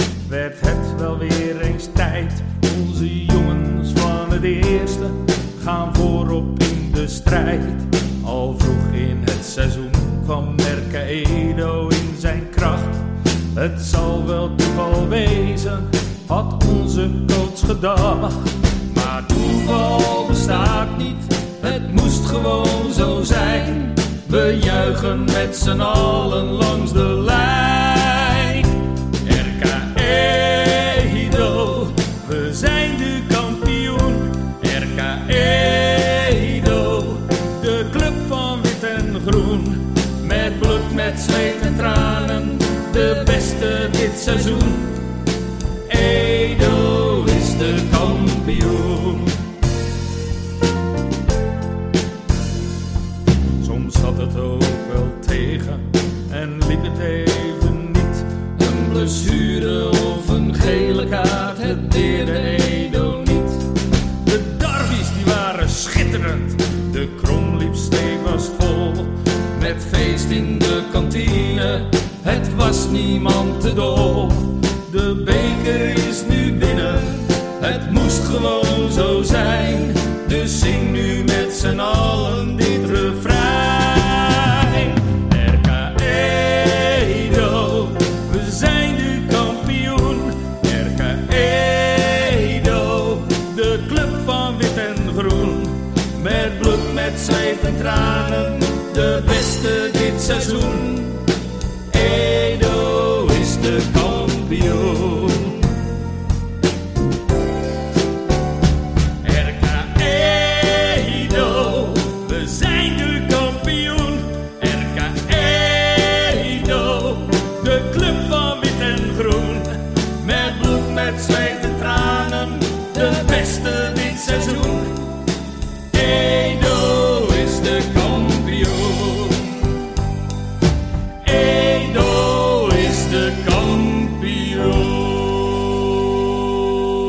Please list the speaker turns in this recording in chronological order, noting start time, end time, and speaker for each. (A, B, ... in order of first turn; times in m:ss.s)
0:00.3-0:28.7 A
0:29.2-0:45.0 A
0:45.9-0:49.4 A
0:53.6-1:03.6 A
1:04.2-1:41.2 A
1:41.9-1:45.6 A
1:49.2-2:05.0 A
2:05.9-2:09.6 A
2:11.2-2:15.9 A